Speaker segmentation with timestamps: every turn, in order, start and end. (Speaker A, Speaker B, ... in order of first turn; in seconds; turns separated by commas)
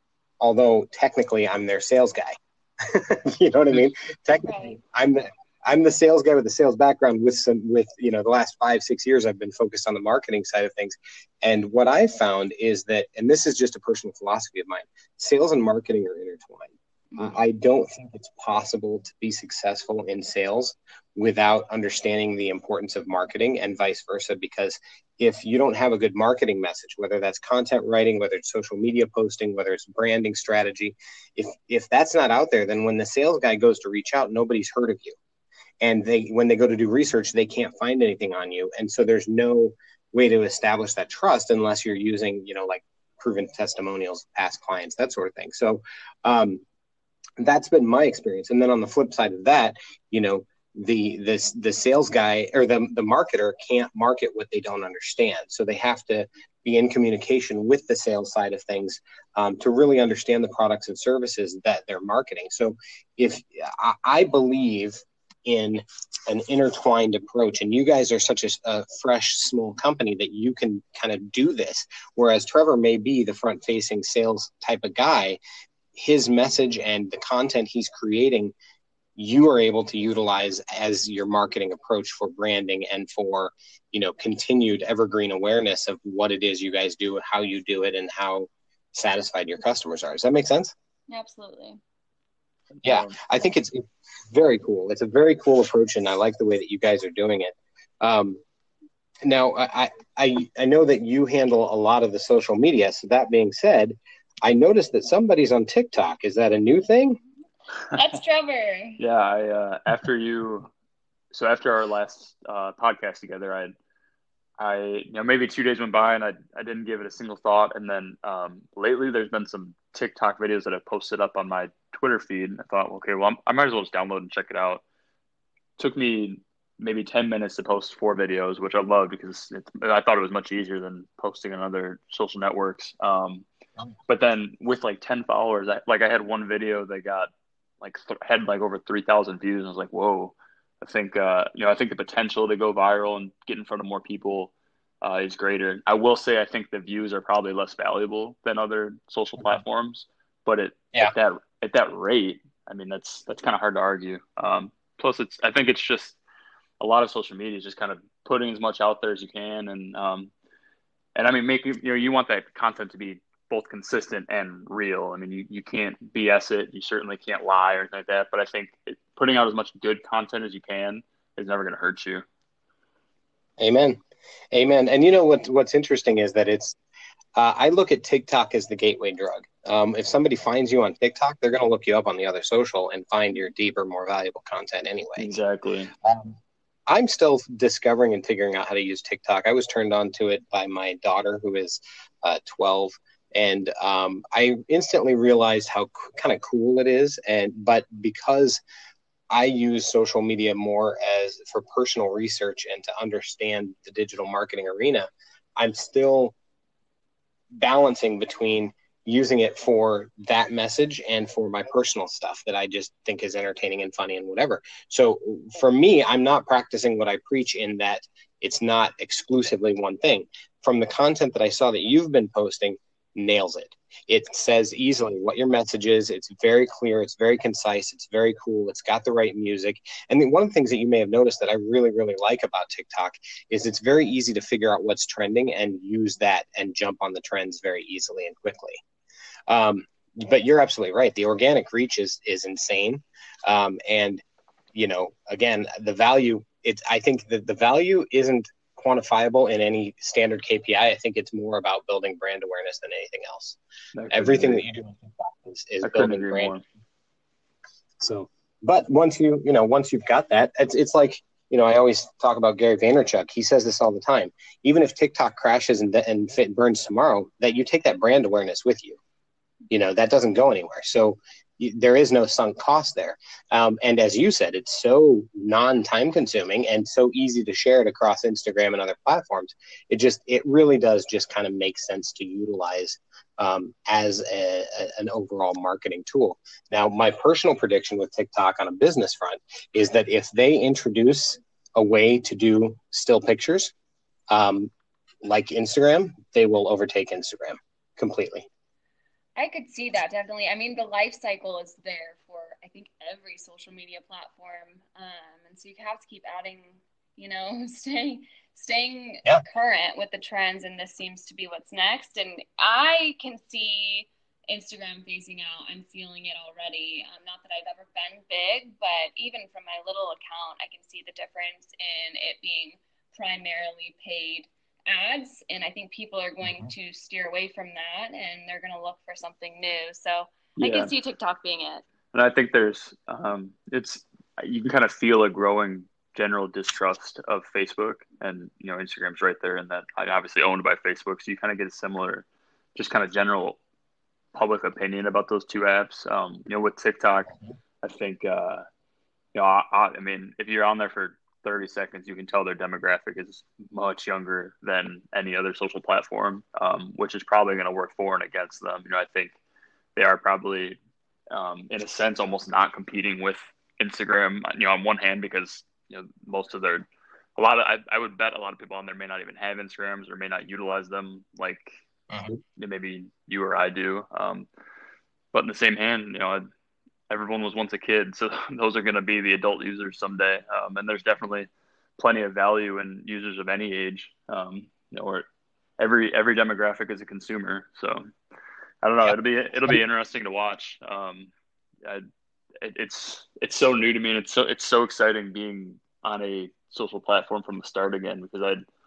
Speaker A: 0.4-35.2, Speaker B: 4.4-4.8, Speaker A: 35.8-46.6, Speaker A: 47.4-75.4, Speaker A: 75.9-78.5, Speaker A: 79.2-90.7, Speaker B: 91.1-91.8, Speaker C: 92.8-93.1, Speaker A: 92.8-98.4, Speaker A: 99.2-107.2, Speaker B: 107.9-109.0, Speaker C: 109.0-110.7, Speaker C: 111.3-113.7, Speaker C: 114.6-124.8, Speaker C: 125.8-133.4, Speaker C: 134.1-137.3, Speaker C: 137.8-144.5, Speaker C: 145.0-156.2, Speaker C: 156.8-160.3, Speaker C: 161.1-172.2, Speaker A: 173.6-174.0, Speaker A: 174.5-176.8, Speaker A: 177.3-185.3, Speaker C: 185.2-185.9, Speaker A: 186.0-198.6, Speaker A: 199.3-206.3, Speaker A: 207.6-238.8, Speaker A: 239.5-244.2, Speaker A: 244.7-253.6, Speaker C: 253.9-254.6, Speaker A: 254.1-256.5, Speaker C: 255.8-256.6, Speaker A: 258.0-269.0, Speaker A: 269.7-293.7, Speaker A: 294.3-294.7, Speaker A: 295.2-298.5, Speaker B: 299.4-331.8, Speaker C: 330.6-330.9, Speaker C: 332.1-343.6, Speaker C: 344.3-348.6, Speaker C: 349.3-359.3, Speaker C: 359.9-360.8, Speaker C: 361.3-371.7, Speaker A: 372.1-372.4, Speaker C: 372.6-374.5, Speaker C: 375.3-376.4, Speaker C: 377.1-385.2, Speaker C: 385.8-388.1, Speaker C: 388.8-391.3, Speaker A: 389.0-389.8, Speaker C: 392.6-398.6